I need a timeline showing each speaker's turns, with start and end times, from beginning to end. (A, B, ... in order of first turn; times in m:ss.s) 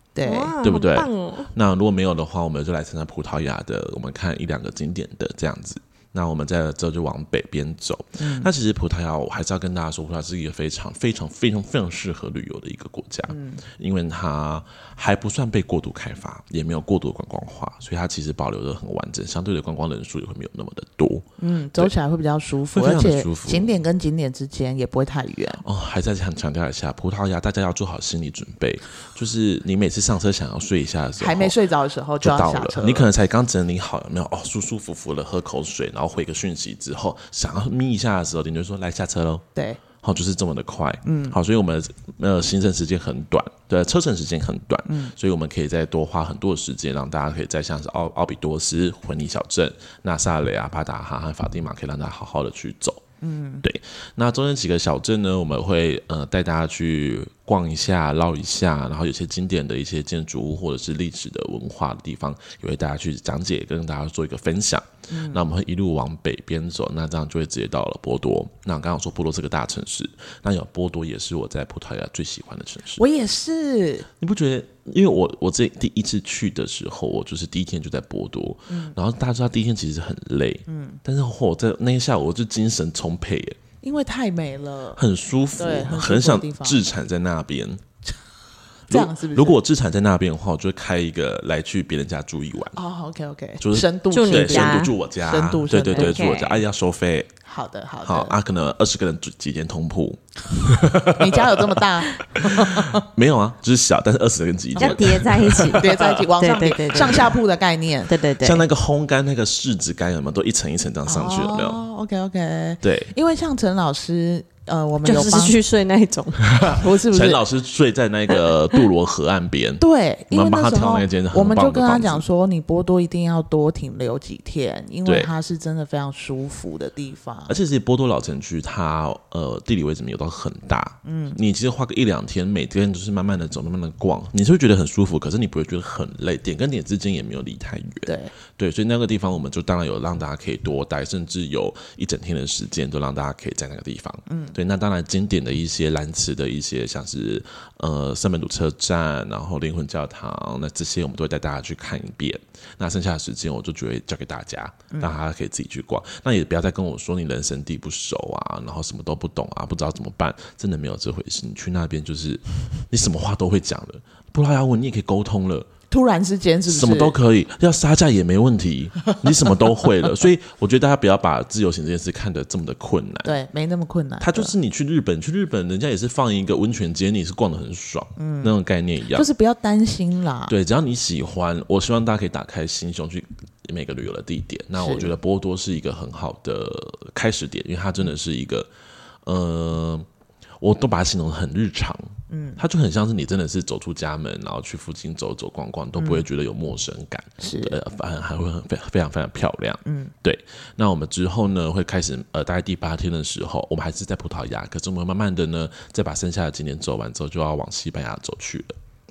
0:00.1-0:00.5 A
0:00.2-0:01.5 B
0:00.6-0:21.9 C
0:08.2-0:08.5 A
0:13.3-0:13.6 A
0:21.4-0:25.6 A
0:22.7-0:23.8 C
0:25.6-0:31.5 C
0:31.2-0:33.1 A
0:32.2-0:39.4 C
0:39.5-0:39.8 A
0:40.0-0:53.0 C
0:41.0-0:41.4 A
0:44.8-0:45.1 A
0:53.2-0:53.6 A
0:53.6-1:13.0 C
1:05.1-1:05.4 A
1:13.0-1:14.1 A
1:14.2-1:23.6 C
1:18.7-1:18.9 A
1:20.7-1:21.0 A
1:23.8-1:25.0 A
1:24.9-1:27.8 C
1:25.6-1:26.8 A
1:28.9-1:29.6 A
1:28.9-1:32.8 C
1:32.7-1:36.4 A
1:33.6-1:37.3 C
1:34.1-1:34.9 B
1:35.8-1:36.6 B
1:37.4-1:38.3 A
1:38.0-1:46.2 C
1:41.0-1:43.1 A
1:44.8-1:47.3 B
1:44.8-1:48.1 A
1:48.0-1:48.6 B
1:48.4-1:51.8 C
1:51.0-1:55.6 A
1:52.8-1:53.1 C
1:55.0-1:56.5 B
1:56.4-2:02.2 C
1:56.6-1:57.4 A
1:59.8-2:07.6 A
2:05.0-2:05.3 C
2:07.5-2:45.7 C
2:11.0-2:11.4 A
2:18.0-2:18.3 A
2:24.3-2:24.5 A
2:45.9-2:47.2 A
2:46.7-2:53.3 C
2:53.2-2:54.5 A
2:54.2-2:59.2 C
2:58.2-2:58.5 A
2:59.1-3:00.5 A
3:00.5-3:08.7 C
3:04.8-3:05.1 A
3:09.2-3:10.1 C
3:10.6-3:28.8 C
3:12.3-3:12.6 A
3:16.0-3:16.2 A
3:17.4-3:17.8 A
3:19.8-3:20.1 A